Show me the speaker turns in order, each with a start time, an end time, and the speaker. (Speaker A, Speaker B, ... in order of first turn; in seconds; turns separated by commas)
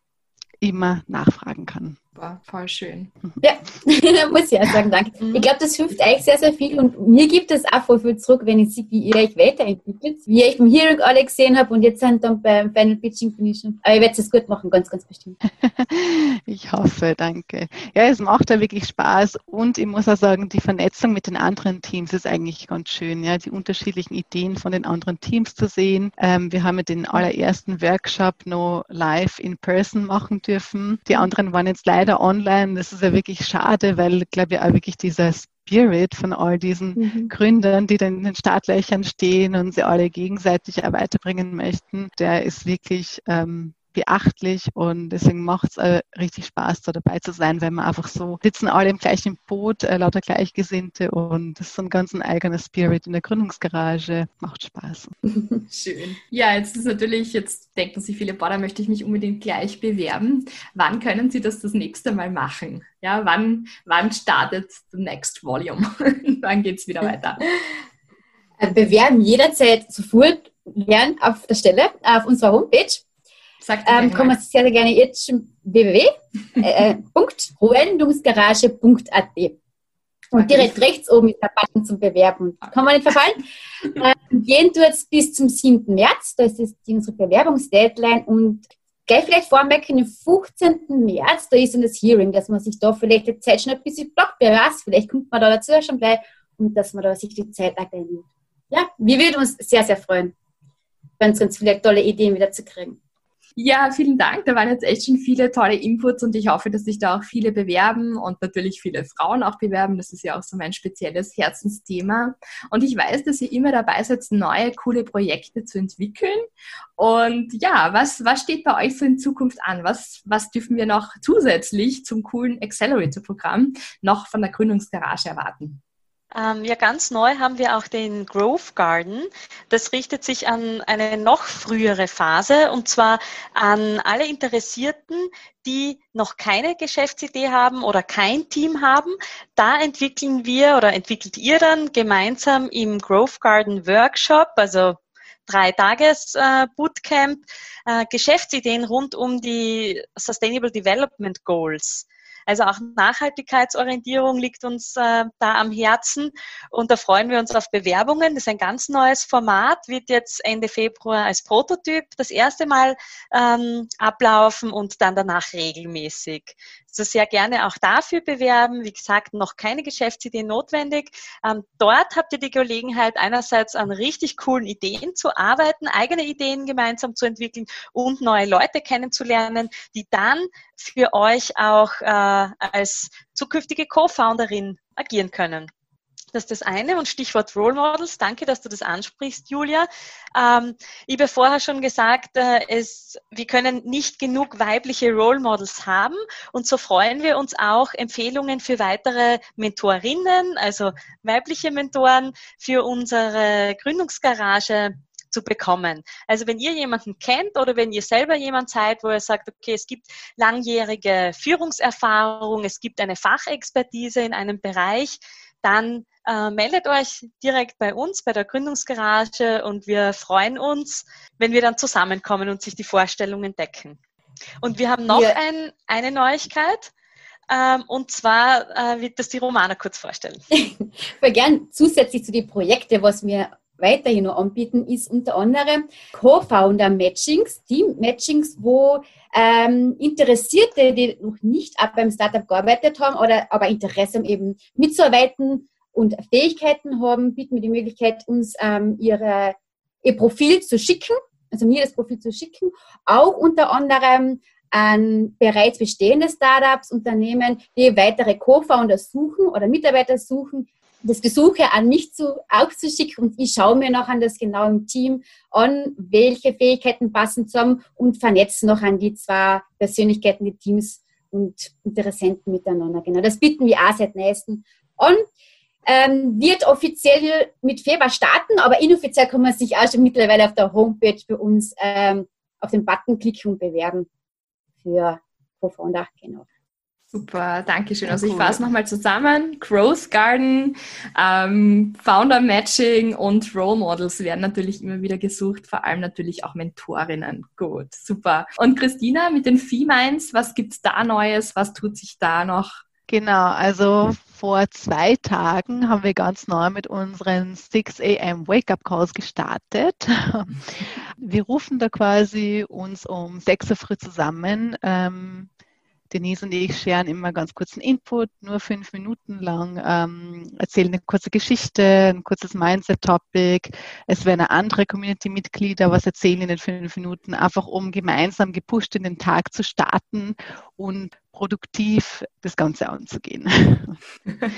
Speaker A: 0.6-2.0, Speaker B: 2.2-3.1, Speaker C: 3.4-15.4, Speaker A: 15.6-55.1, Speaker B: 37.0-37.3, Speaker B: 55.7-67.5, Speaker C: 68.6-73.0, Speaker B: 73.6-74.4, Speaker C: 73.8-79.6, Speaker C: 80.3-100.3, Speaker B: 80.4-80.7, Speaker C: 101.2-103.0, Speaker B: 103.6-116.5, Speaker B: 117.0-125.8, Speaker D: 126.3-185.7, Speaker D: 186.3-224.0, Speaker D: 224.6-226.9, Speaker C: 225.1-225.4, Speaker D: 227.5-230.4, Speaker C: 230.5-275.2, Speaker C: 275.9-284.1, Speaker C: 284.8-286.4, Speaker B: 287.1-302.8, Speaker A: 288.1-288.6, Speaker A: 303.1-315.5, Speaker A: 316.1-334.0